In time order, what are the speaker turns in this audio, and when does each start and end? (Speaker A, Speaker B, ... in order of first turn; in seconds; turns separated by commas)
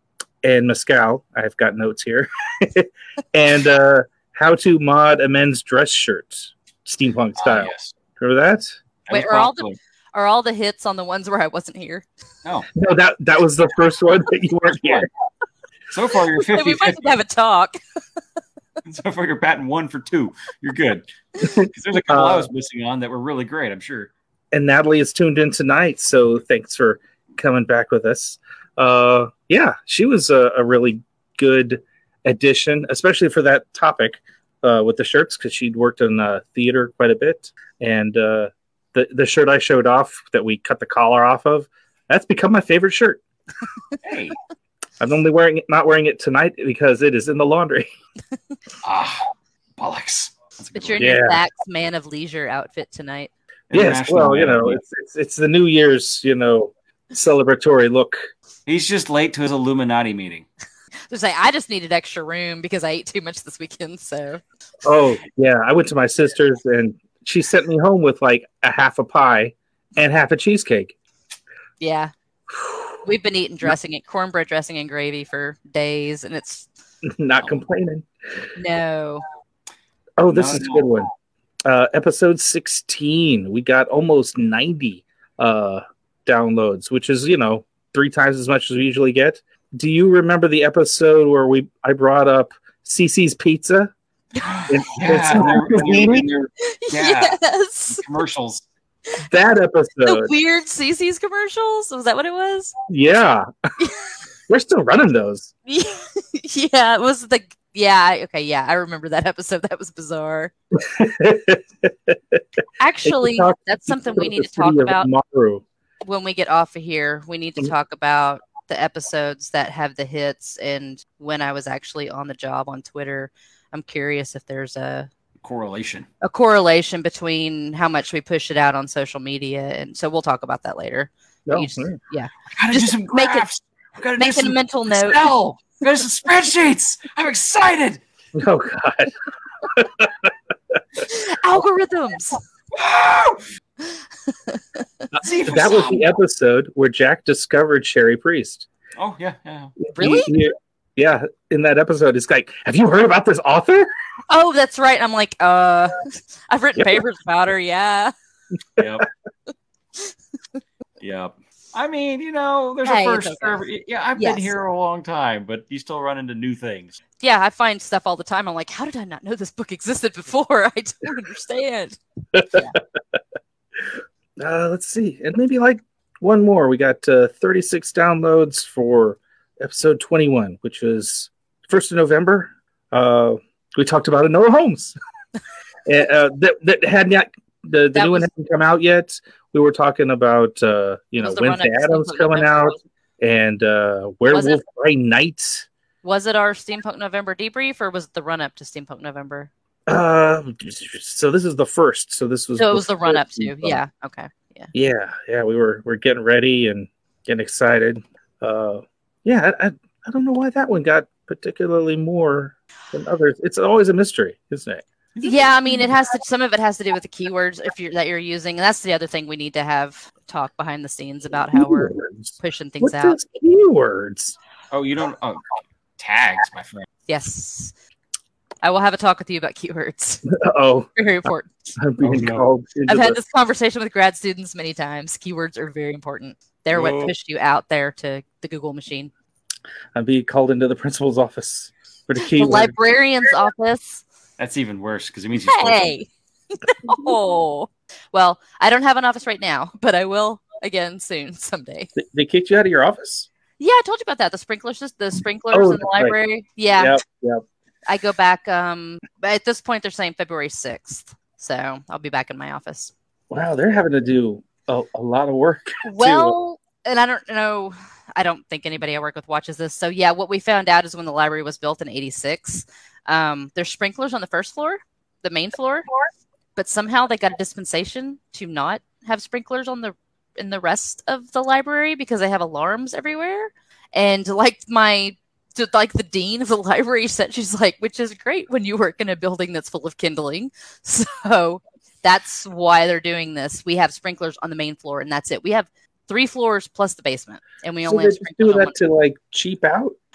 Speaker A: 0.4-8.7, Speaker B: 7.4-7.9, Speaker B: 9.1-9.8, Speaker C: 9.1-12.1, Speaker A: 12.7-15.1, Speaker B: 14.7-15.1, Speaker B: 15.9-17.1, Speaker C: 16.4-17.8, Speaker B: 18.8-24.1, Speaker A: 22.1-22.5, Speaker A: 24.5-43.2, Speaker B: 44.0-44.4, Speaker A: 45.0-47.9, Speaker B: 48.8-51.1, Speaker C: 50.7-53.3, Speaker A: 51.0-51.4, Speaker B: 53.7-54.8, Speaker A: 53.7-58.2, Speaker B: 58.7-60.5, Speaker C: 61.1-64.4, Speaker A: 64.8-70.9, Speaker C: 71.8-72.1, Speaker C: 73.0-76.7, Speaker A: 77.0-78.1, Speaker C: 78.5-79.2, Speaker A: 80.2-81.1, Speaker B: 80.2-81.1, Speaker A: 81.6-93.9, Speaker C: 94.3-94.7, Speaker B: 94.4-97.4, Speaker A: 94.7-96.3, Speaker C: 96.6-98.0, Speaker B: 97.9-98.6, Speaker A: 99.3-100.3, Speaker C: 100.0-102.7, Speaker A: 102.9-103.5, Speaker A: 104.5-105.5, Speaker C: 105.7-110.5, Speaker A: 110.7-112.4, Speaker C: 112.8-115.1, Speaker A: 113.0-115.6, Speaker C: 116.0-125.1, Speaker B: 125.4-126.1, Speaker C: 126.2-133.5, Speaker A: 131.4-132.0, Speaker B: 132.5-138.0, Speaker C: 134.2-135.3, Speaker A: 138.3-139.1, Speaker A: 139.6-140.3, Speaker C: 141.0-142.4, Speaker B: 142.7-143.4, Speaker C: 144.5-144.8, Speaker B: 145.2-146.0, Speaker A: 145.4-148.7, Speaker B: 148.9-149.8, Speaker A: 149.8-153.9, Speaker C: 149.9-150.3, Speaker C: 154.3-158.1, Speaker B: 158.8-159.1, Speaker B: 161.0-167.0, Speaker C: 162.8-163.6, Speaker C: 164.2-164.5, Speaker C: 167.2-172.0, Speaker C: 172.5-172.8, Speaker A: 174.4-184.9, Speaker A: 185.9-195.7, Speaker C: 187.9-188.3, Speaker C: 191.2-192.8, Speaker C: 194.3-194.6, Speaker C: 196.0-199.5, Speaker A: 199.9-203.8, Speaker C: 202.6-204.7, Speaker A: 204.7-214.8, Speaker B: 215.2-215.4, Speaker C: 215.2-223.2, Speaker A: 221.5-224.4, Speaker B: 224.7-226.9, Speaker C: 227.1-227.7, Speaker C: 228.6-230.2, Speaker A: 230.3-230.9, Speaker C: 230.9-231.5, Speaker A: 231.8-233.2, Speaker B: 232.0-232.4, Speaker C: 232.9-239.1, Speaker B: 236.7-237.1, Speaker A: 239.9-242.7, Speaker C: 242.2-244.0, Speaker B: 244.4-245.9, Speaker C: 245.4-251.9, Speaker A: 251.9-253.3, Speaker C: 253.6-257.0, Speaker A: 255.5-256.2, Speaker A: 256.7-257.4, Speaker C: 257.9-262.9, Speaker A: 263.3-266.4, Speaker C: 265.8-275.9, Speaker C: 276.6-298.8, Speaker A: 297.9-299.9